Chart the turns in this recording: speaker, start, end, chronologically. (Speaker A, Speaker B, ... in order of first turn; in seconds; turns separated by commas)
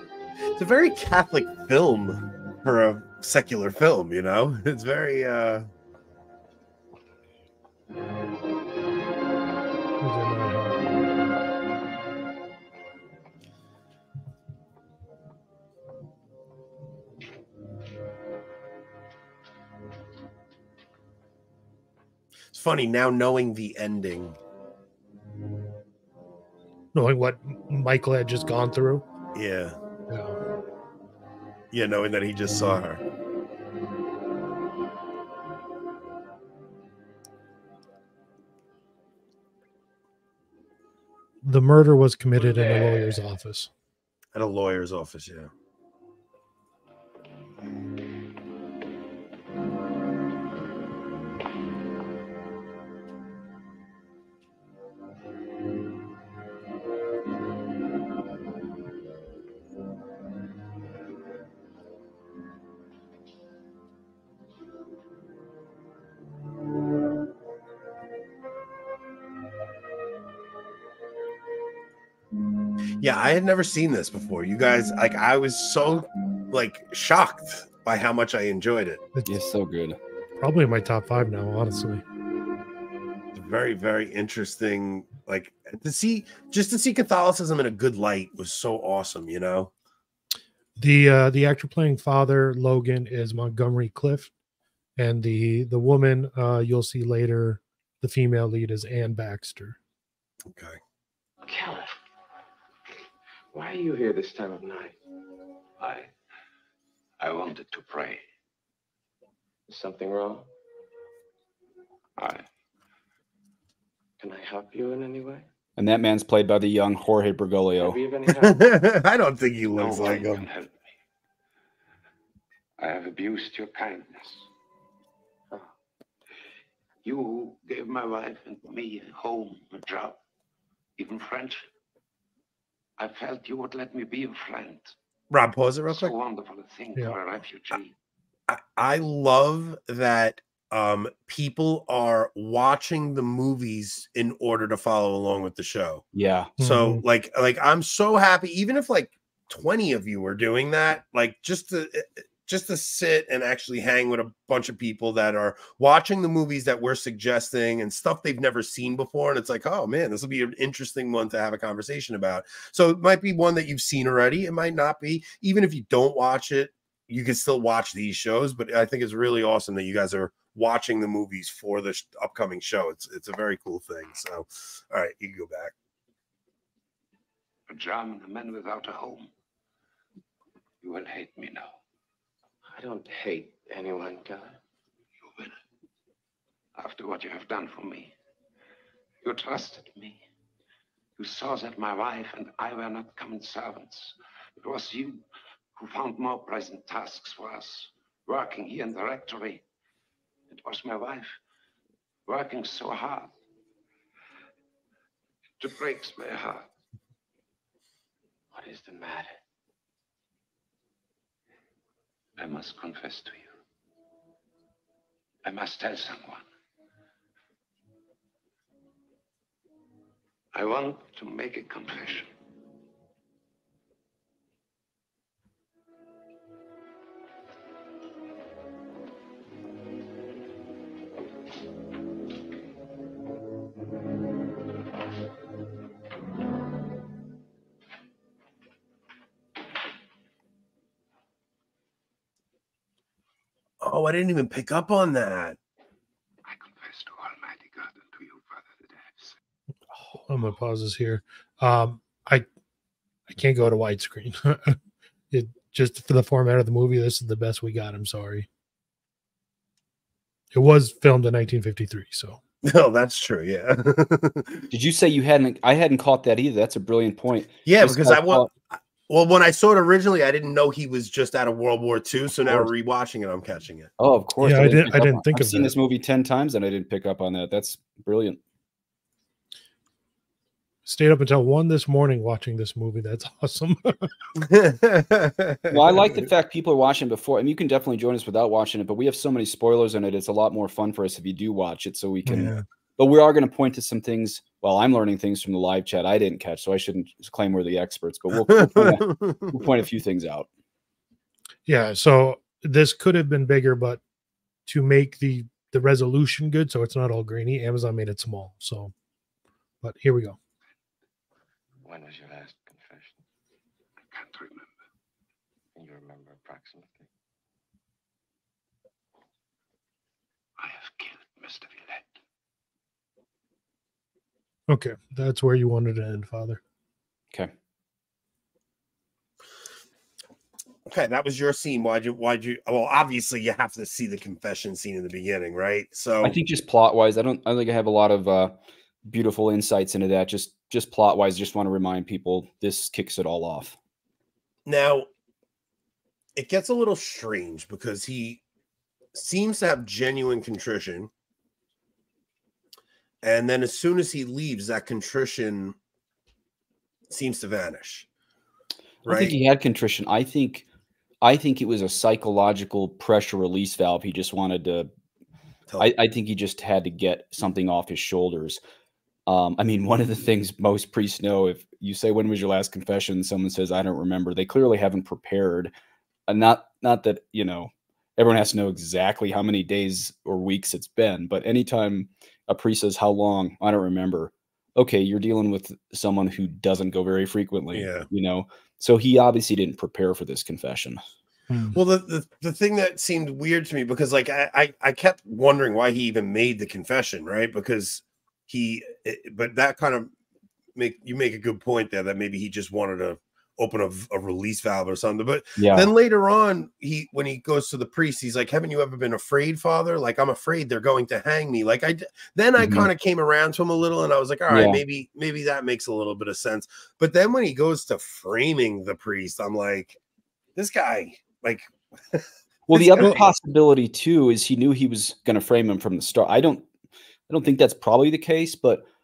Speaker A: 0.6-5.7, Speaker B: 10.0-10.8, Speaker A: 22.5-24.4, Speaker B: 26.9-29.1, Speaker A: 29.3-29.8, Speaker B: 30.1-30.4, Speaker A: 31.7-33.0, Speaker B: 41.4-43.7, Speaker A: 44.3-45.5, Speaker A: 73.0-79.0, Speaker C: 79.2-80.0, Speaker B: 80.4-82.0, Speaker A: 83.3-89.7, Speaker B: 90.8-94.3, Speaker B: 95.0-99.8, Speaker A: 100.5-100.8, Speaker D: 101.5-101.9, Speaker D: 103.5-105.0, Speaker E: 107.2-108.2, Speaker D: 109.7-110.5, Speaker D: 114.2-115.4, Speaker C: 115.8-118.0, Speaker D: 117.8-118.7, Speaker A: 118.3-120.4, Speaker E: 119.8-120.7, Speaker D: 119.9-120.4, Speaker E: 122.8-124.4, Speaker E: 127.0-130.2, Speaker E: 131.0-131.7, Speaker E: 133.0-134.9, Speaker A: 135.3-136.1, Speaker E: 135.9-137.9, Speaker A: 138.5-146.0, Speaker C: 146.1-146.5, Speaker B: 146.6-147.0, Speaker A: 146.6-175.7, Speaker E: 177.7-179.3, Speaker E: 180.8-181.7, Speaker D: 182.7-184.6, Speaker E: 185.2-185.5, Speaker E: 186.8-188.1, Speaker E: 189.2-190.2, Speaker E: 191.2-195.2, Speaker E: 195.8-199.6, Speaker E: 200.5-201.3, Speaker E: 202.3-203.3, Speaker E: 205.6-206.6, Speaker D: 208.5-209.3, Speaker E: 212.4-213.5, Speaker E: 215.4-216.4, Speaker E: 220.5-222.3, Speaker A: 243.8-245.6, Speaker E: 246.5-249.3, Speaker B: 250.3-252.5, Speaker B: 253.3-254.8, Speaker B: 255.3-258.5, Speaker B: 260.5-262.4, Speaker A: 262.6-264.6, Speaker C: 264.7-268.5, Speaker A: 267.6-273.9, Speaker C: 274.0-278.4, Speaker B: 274.4-275.7, Speaker B: 280.9-284.1, Speaker A: 284.4-286.2, Speaker C: 285.7-300.5, Speaker B: 292.2-292.6, Speaker A: 298.4-299.7, Speaker B: 301.7-304.0, Speaker B: 304.7-308.9, Speaker B: 309.8-310.4, Speaker D: 311.8-313.2, Speaker E: 314.1-314.6, Speaker D: 315.7-317.1, Speaker E: 320.6-322.0, Speaker B: 324.7-326.6, Speaker A: 330.9-336.4, Speaker C: 336.2-343.8, Speaker A: 344.6-345.1, Speaker A: 346.4-348.4, Speaker A: 349.1-351.1, Speaker A: 353.2-355.7, Speaker A: 357.1-358.1, Speaker A: 359.0-359.4, Speaker C: 359.1-360.6, Speaker C: 361.2-364.9, Speaker C: 365.8-368.6, Speaker C: 369.3-375.7, Speaker C: 376.3-391.0, Speaker A: 387.7-388.1, Speaker B: 391.5-391.8, Speaker A: 391.7-400.1, Speaker A: 400.8-420.0, Speaker C: 405.6-405.9, Speaker C: 412.6-412.9, Speaker C: 414.5-414.8, Speaker A: 420.6-423.2, Speaker C: 422.7-426.7, Speaker C: 427.3-428.9